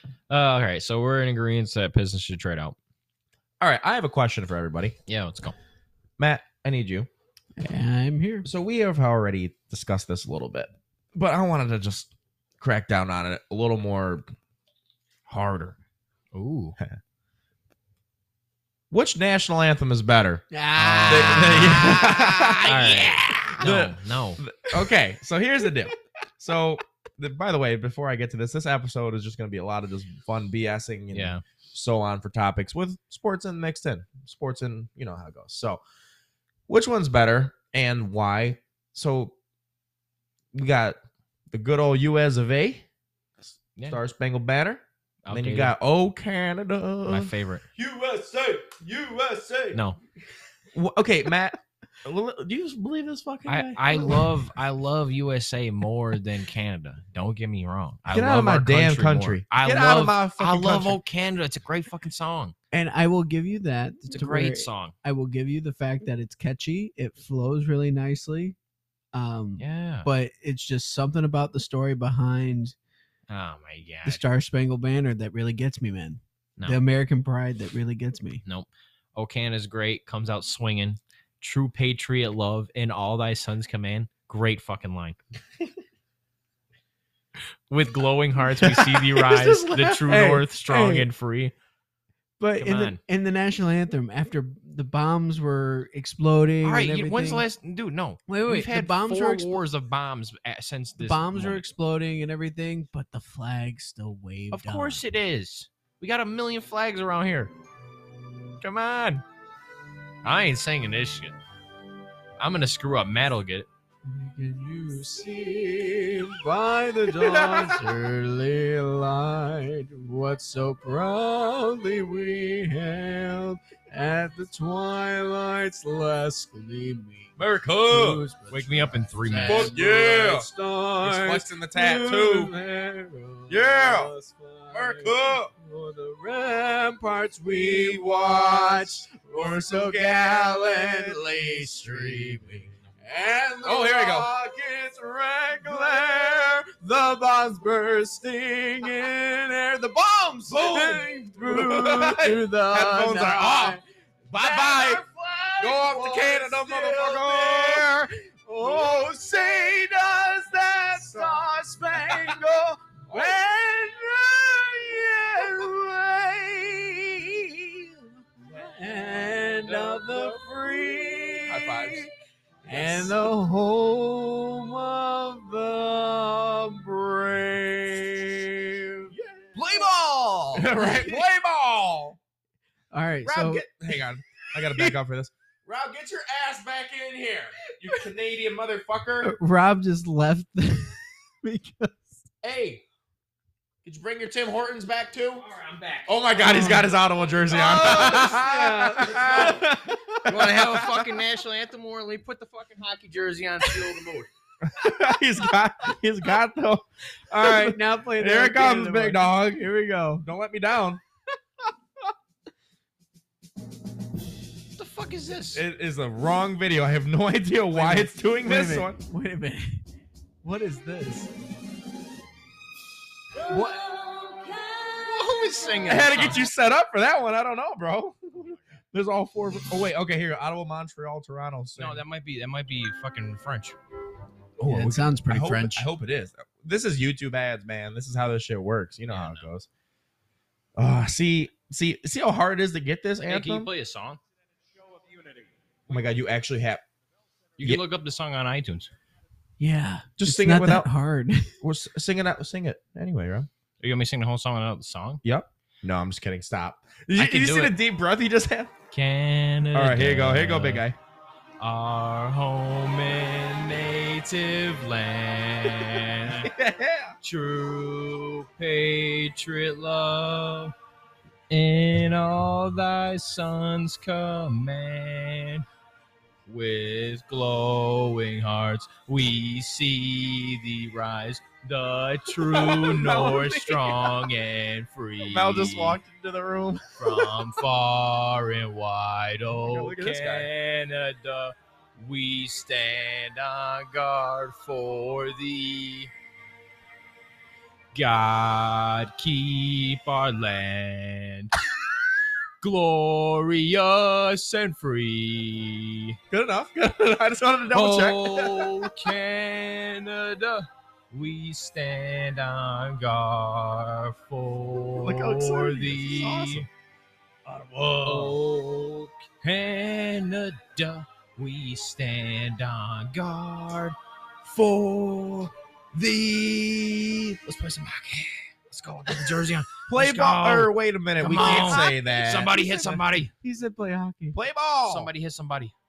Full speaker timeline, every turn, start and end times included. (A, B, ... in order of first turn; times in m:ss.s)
0:00.3-0:02.8 A
0:03.6-0:05.0 B
0:05.1-0:05.5 A
0:06.2-0:07.1 B
0:07.6-0:08.5 C
0:08.4-0:14.3 B
0:15.3-0:15.8 B
0:16.3-0:16.8 A
0:18.9-0:20.4 B
0:20.5-0:22.7 C
0:20.8-0:22.0 A
0:21.1-0:35.8 B
0:22.6-0:24.4 A
0:31.1-0:31.4 A
0:36.7-0:39.4 B
0:40.5-0:41.0 B
0:41.5-0:42.8 B
0:43.4-0:49.8 B
0:45.2-0:45.7 A
0:47.1-0:47.6 A
0:50.7-0:54.3 B
0:53.5-1:02.5 A
0:58.1-1:01.0 B
1:02.7-1:08.6 C
1:04.1-1:04.9 A
1:09.1-1:12.7 C
1:09.6-1:10.1 A
1:13.3-1:14.2 A
1:14.0-1:18.4 C
1:18.4-1:25.2 A
1:27.7-1:31.5 A
1:28.6-1:30.4 B
1:30.1-1:31.0 C
1:32.4-1:37.4 C
1:32.6-1:33.0 A
1:36.6-1:41.6 A
1:38.3-1:39.6 C
1:41.0-1:45.0 C
1:44.5-1:47.5 A
1:48.6-1:49.2 A
1:50.2-1:51.4 A
1:52.4-1:53.7 A
1:54.0-2:52.1 C
1:57.1-1:57.8 B
2:07.4-2:08.2 B
2:08.5-2:09.7 A
2:09.4-2:10.5 B
2:11.0-2:12.5 B
2:13.5-2:14.1 B
2:14.7-2:15.5 B
2:17.5-2:22.4 B
2:23.6-2:24.3 B
2:25.5-2:26.7 B
2:30.4-2:33.8 B
2:34.3-2:35.0 B
2:35.6-2:38.0 B
2:38.6-2:42.4 B
2:43.1-2:43.4 B
2:48.5-2:52.1 B
2:52.6-3:01.2 C
2:52.6-2:53.3 B
2:59.1-2:59.8 B
3:00.5-3:02.2 B
3:02.9-3:03.7 C
3:03.2-3:09.3 B
3:04.7-3:04.9 C
3:09.2-3:12.2 C
3:12.4-3:12.8 B
3:13.8-3:15.4 B
3:15.4-3:16.2 A
3:16.0-3:21.1 B
3:16.4-3:16.9 C
3:17.5-3:19.6 C
3:17.8-3:18.2 A
3:19.2-3:19.6 A
3:20.2-3:24.3 A
3:24.6-3:31.0 B
3:27.3-3:29.2 C
3:34.7-3:35.6 A
3:35.5-3:39.0 B
3:37.7-3:39.8 C
3:40.4-3:41.3 C
3:43.4-3:44.8 C
3:45.0-3:46.4 A
3:45.8-3:52.0 B
3:48.3-3:48.8 A
3:51.8-3:53.8 A
3:54.6-3:59.7 B
3:54.6-3:55.9 C
3:59.1-3:59.5 A
4:00.8-4:03.7 B
4:03.2-4:04.2 A
4:05.9-4:06.8 B
4:07.6-4:08.9 A
4:09.6-4:11.5 C
4:10.2-4:10.9 B
4:11.6-4:13.5 B
4:13.8-4:15.2 A
4:15.2-4:18.7 B
4:17.2-4:17.8 A
4:18.9-4:20.8 A
4:19.7-4:21.0 B
4:21.6-4:26.5 A
4:26.2-4:27.2 B
4:27.2-4:30.7 A
4:31.5-4:35.6 A
4:36.5-4:46.0 A
4:42.3-4:44.2 B
4:45.2-4:47.4 B
4:47.0-4:56.1 A
4:49.5-4:50.5 B
4:57.9-5:01.5 A
5:02.6-5:06.2 A
5:06.3-5:09.1 B
5:07.7-5:16.7 A
5:14.9-5:16.7 B
5:17.4-5:33.3 A
5:18.0-5:18.4 B
5:29.9-5:32.6 B
5:31.2-5:34.4 C
5:34.3-5:35.1 B
5:34.8-5:35.7 A